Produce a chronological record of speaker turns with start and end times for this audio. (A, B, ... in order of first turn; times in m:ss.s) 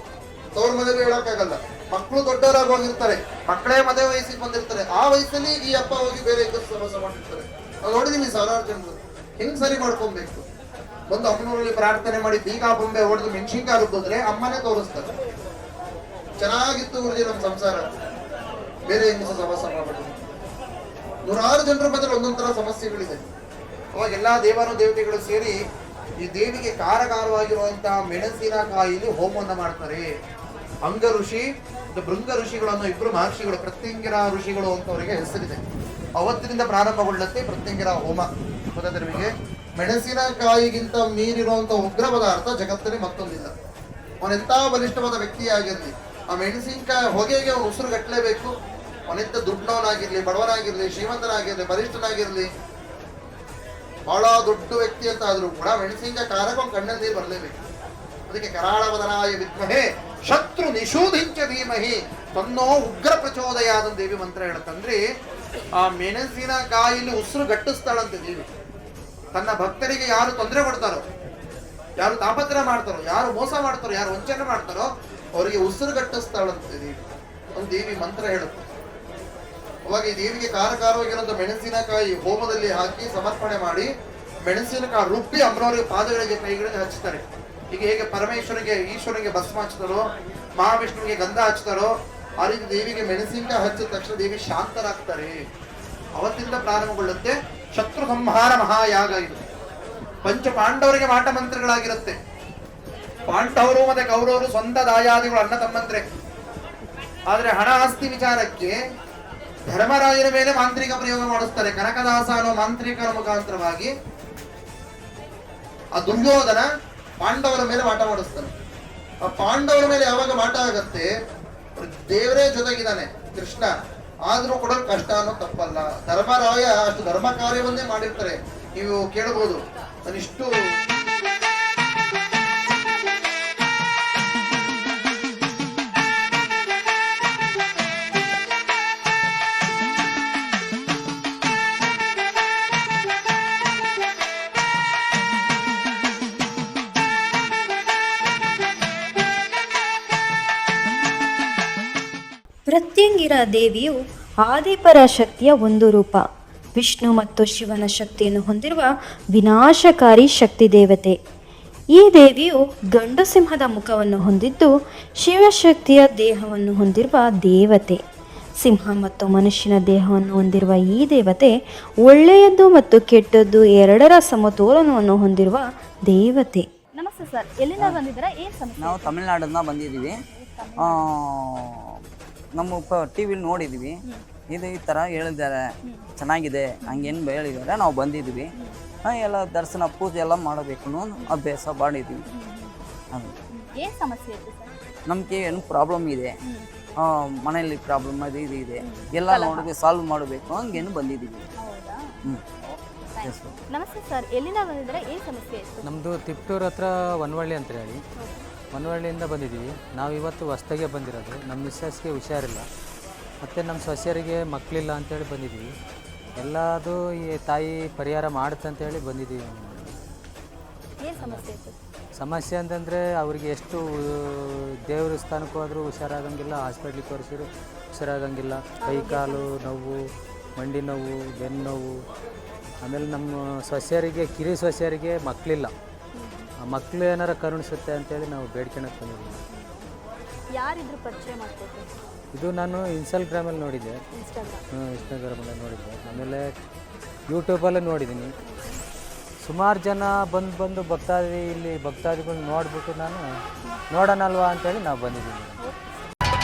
0:00.6-0:10.5 A
0:11.1-0:15.1 A
0:16.4-0:17.9 A
0:18.9-0:20.2 A
0:21.2-0:23.2 A
0:24.0-0:25.6 A
0:26.2-0:30.1 A
0:30.8-0:35.6 A
0:36.2-0:43.5 A
0:44.2-0:48.5 A
0:49.1-0:52.5 A
0:54.1-0:57.6 A
0:58.3-1:05.0 A
1:05.8-1:08.5 A
1:09.3-1:11.0 A
1:12.0-1:18.7 A
1:19.9-1:23.9 A
1:24.4-1:35.4 A
1:36.2-1:39.4 A
1:40.2-1:42.2 A
1:43.3-1:46.0 A
1:47.3-1:48.8 A
1:49.7-1:53.9 A
1:56.0-1:56.7 A
1:57.2-1:58.5 A
1:59.2-2:01.1 A
2:01.8-2:03.8 A
2:04.3-2:10.5 A
2:32.7-2:36.2 B
2:36.8-2:41.2 B
2:42.0-2:44.7 B
2:45.2-2:48.0 B
2:48.6-2:56.7 B
2:57.0-2:59.1 C
2:58.8-3:00.2 D
3:00.2-3:01.0 C
3:00.8-3:01.9 D
3:02.6-3:04.0 D
3:04.5-3:05.6 D
3:06.2-3:08.5 D
3:06.8-3:07.1 C
3:09.0-3:12.2 D
3:12.3-3:12.7 C
3:13.5-3:14.7 C
3:15.1-3:16.3 D
3:17.0-3:21.5 D
3:18.8-3:19.7 C
3:21.6-3:25.9 C
3:23.2-3:23.6 D
3:25.8-3:28.0 E
3:28.2-3:28.4 C
3:28.7-3:32.6 E
3:33.4-3:35.7 E
3:36.4-3:39.9 E
3:41.0-3:41.8 C
3:42.2-3:50.0 E
3:48.8-3:49.5 C
3:50.6-3:51.9 E
3:52.8-3:55.7 E
3:56.2-3:56.5 C
3:56.7-3:59.4 E
4:00.5-4:02.0 C
4:02.4-4:04.0 E
4:04.1-4:05.1 C
4:04.9-4:06.5 E
4:07.3-4:08.3 E
4:08.4-4:08.8 C
4:09.5-4:13.2 E
4:13.9-4:15.6 E
4:15.6-4:16.0 C